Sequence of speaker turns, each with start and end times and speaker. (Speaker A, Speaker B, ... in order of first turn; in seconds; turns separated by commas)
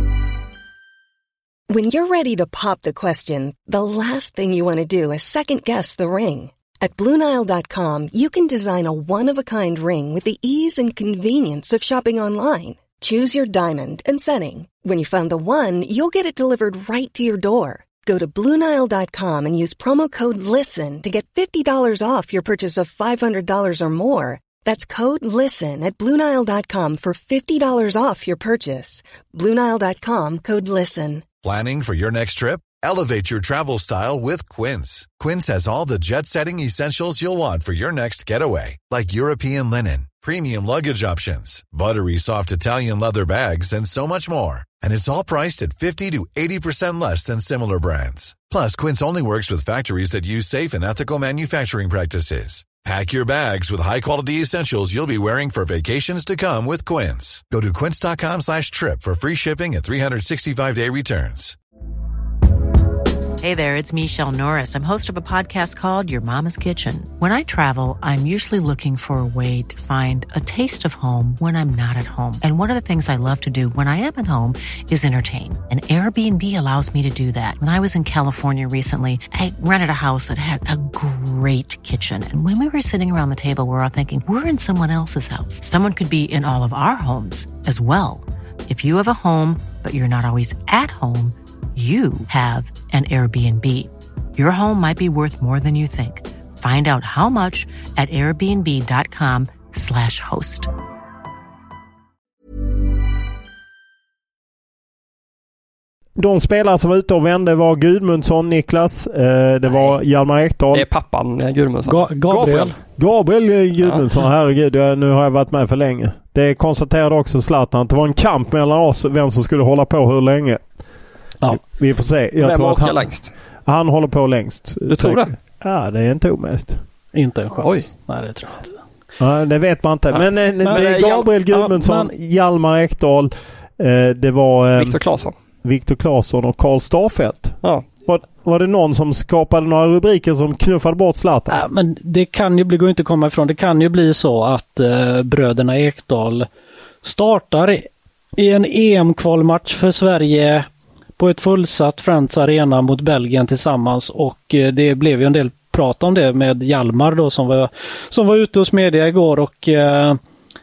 Speaker A: 1.7-31.2, Speaker B: 31.4-61.6, Speaker C: 63.4-100.7, Speaker D: 106.2-110.8, Speaker E: 110.7-112.7, Speaker F: 111.9-112.7, Speaker D: 113.0-120.6, Speaker D: 121.5-123.1, Speaker E: 122.4-123.3, Speaker D: 123.7-126.8, Speaker E: 124.9-125.3, Speaker F: 127.1-128.8, Speaker E: 127.6-127.9, Speaker D: 129.2-135.0, Speaker E: 130.1-131.3, Speaker F: 130.6-130.9, Speaker F: 131.5-132.1, Speaker E: 134.8-135.3, Speaker D: 135.6-141.6, Speaker F: 141.5-146.5, Speaker F: 147.0-160.2